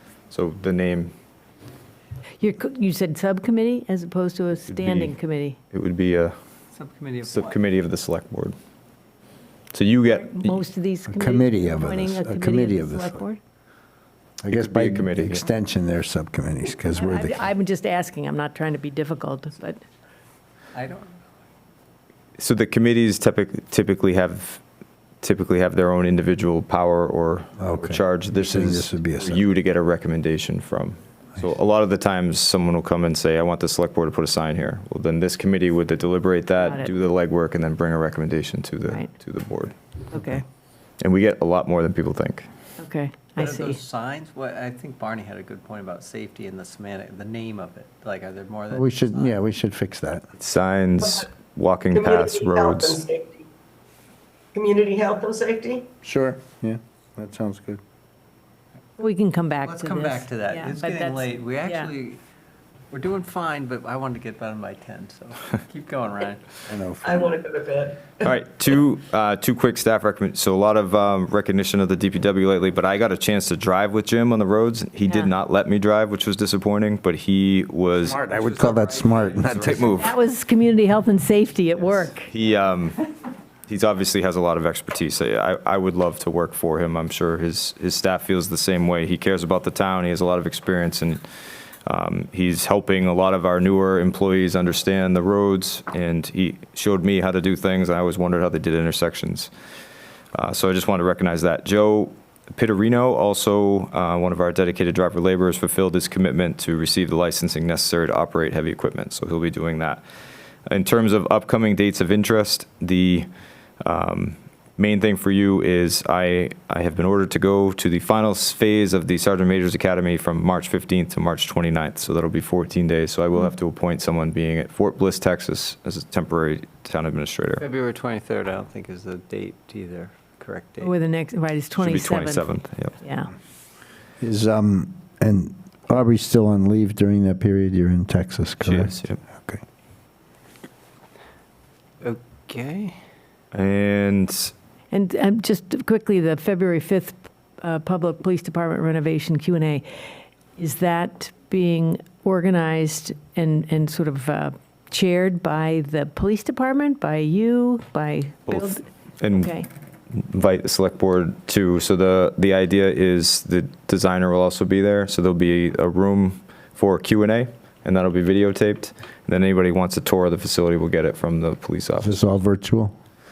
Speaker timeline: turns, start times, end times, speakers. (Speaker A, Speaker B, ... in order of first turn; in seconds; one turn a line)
Speaker A: 0.3-1.1
Speaker B: 2.4-5.6
Speaker A: 4.7-5.2
Speaker A: 5.7-6.4
Speaker C: 6.7-7.6
Speaker A: 7.3-8.6
Speaker A: 9.7-10.6
Speaker B: 10.1-13.4
Speaker D: 11.1-13.2
Speaker D: 14.4-17.5
Speaker A: 14.5-15.4
Speaker B: 16.9-19.8
Speaker C: 20.8-21.2
Speaker A: 22.4-24.6
Speaker A: 25.2-39.8
Speaker D: 27.6-29.4
Speaker B: 36.6-36.9
Speaker B: 40.1-40.4
Speaker A: 41.0-42.5
Speaker B: 42.8-43.8
Speaker C: 43.4-49.4
Speaker D: 48.7-50.2
Speaker A: 50.4-53.0
Speaker E: 51.9-53.5
Speaker E: 54.5-55.9
Speaker D: 56.0-57.8
Speaker B: 59.0-61.9
Speaker C: 59.6-62.2
Speaker C: 62.9-66.5
Speaker D: 66.7-67.3
Speaker E: 67.0-68.2
Speaker A: 68.2-78.2
Speaker B: 75.0-75.3
Speaker D: 78.0-79.9
Speaker A: 79.4-80.2
Speaker B: 79.8-82.3
Speaker A: 82.2-83.0
Speaker A: 83.7-91.2
Speaker A: 91.9-99.5
Speaker A: 100.3-110.0
Speaker A: 110.7-113.3
Speaker A: 113.8-127.7
Speaker C: 127.6-130.9
Speaker B: 130.8-132.5
Speaker A: 131.8-133.0
Speaker B: 133.0-133.3
Speaker D: 134.2-139.6
Speaker A: 138.6-139.2
Speaker C: 142.0-143.0
Speaker A: 143.5-144.5
Speaker B: 144.9-149.8
Speaker B: 150.6-159.7
Speaker A: 158.5-159.6
Speaker A: 160.1-172.2
Speaker D: 172.0-172.9